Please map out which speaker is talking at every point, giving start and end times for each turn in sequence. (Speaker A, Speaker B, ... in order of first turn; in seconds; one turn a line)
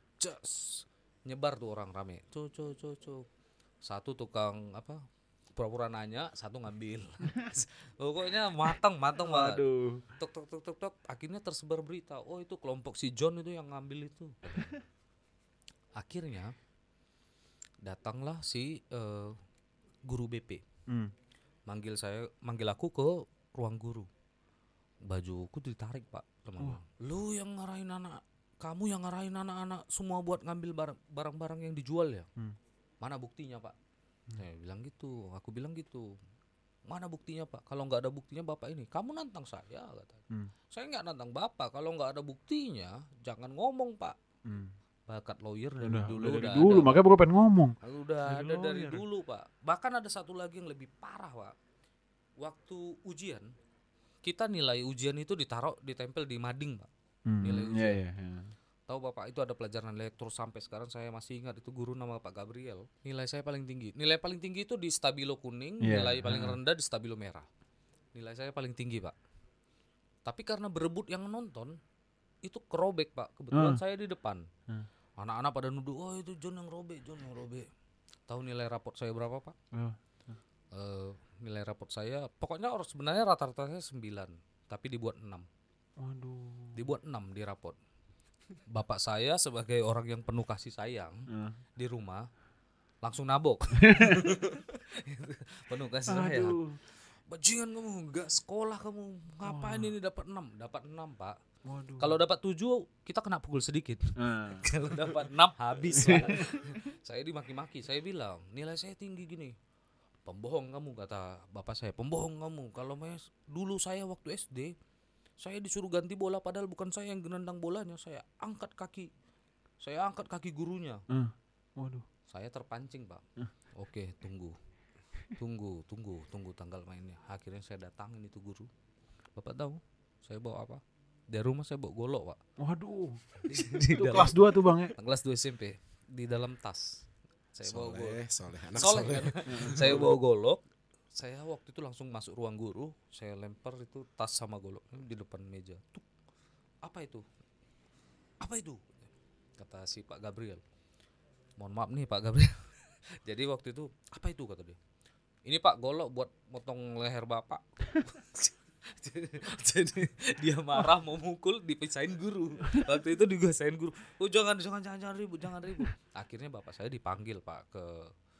Speaker A: 0.2-3.2
Speaker A: 3.8-5.0
Speaker A: 5.5-9.6
Speaker B: 8.6-10.0
Speaker A: 10.2-14.8
Speaker A: 16.0-16.5
Speaker A: 17.8-19.4
Speaker A: 20.1-20.6
Speaker B: 20.9-21.1
Speaker A: 21.7-24.1
Speaker A: 25.0-32.3
Speaker A: 33.0-33.7
Speaker A: 34.4-36.1
Speaker A: 36.9-44.2
Speaker B: 44.5-44.7
Speaker A: 45.1-47.0
Speaker B: 45.8-49.0
Speaker A: 47.8-51.5
Speaker A: 52.4-53.5
Speaker A: 54.2-56.9
Speaker B: 57.2-58.5
Speaker A: 57.4-58.0
Speaker A: 58.9-67.5
Speaker B: 65.8-66.6
Speaker A: 68.1-69.2
Speaker A: 70.2-71.8
Speaker A: 72.4-74.5
Speaker B: 73.5-73.8
Speaker A: 75.2-77.7
Speaker A: 78.3-79.5
Speaker B: 79.7-80.4
Speaker A: 80.7-85.5
Speaker B: 86.0-86.9
Speaker A: 86.8-87.8
Speaker A: 88.7-92.3
Speaker B: 91.3-91.6
Speaker A: 93.0-96.6
Speaker B: 93.8-94.3
Speaker C: 94.2-94.5
Speaker B: 96.1-96.8
Speaker A: 97.3-101.4
Speaker B: 99.4-100.0
Speaker B: 101.6-102.2
Speaker A: 102.0-109.5
Speaker B: 104.2-104.7
Speaker B: 105.9-106.7
Speaker A: 110.2-114.7
Speaker A: 115.4-119.1
Speaker A: 119.8-121.0
Speaker B: 121.1-122.0
Speaker A: 122.3-124.6
Speaker A: 125.4-128.7
Speaker A: 129.4-132.4
Speaker B: 132.6-133.2
Speaker A: 133.4-138.2
Speaker B: 133.8-134.9
Speaker C: 137.6-140.0
Speaker A: 138.7-140.6
Speaker B: 139.4-140.2
Speaker A: 141.1-146.0
Speaker A: 146.8-147.2
Speaker A: 148.4-150.6
Speaker A: 151.6-154.8
Speaker A: 155.4-168.1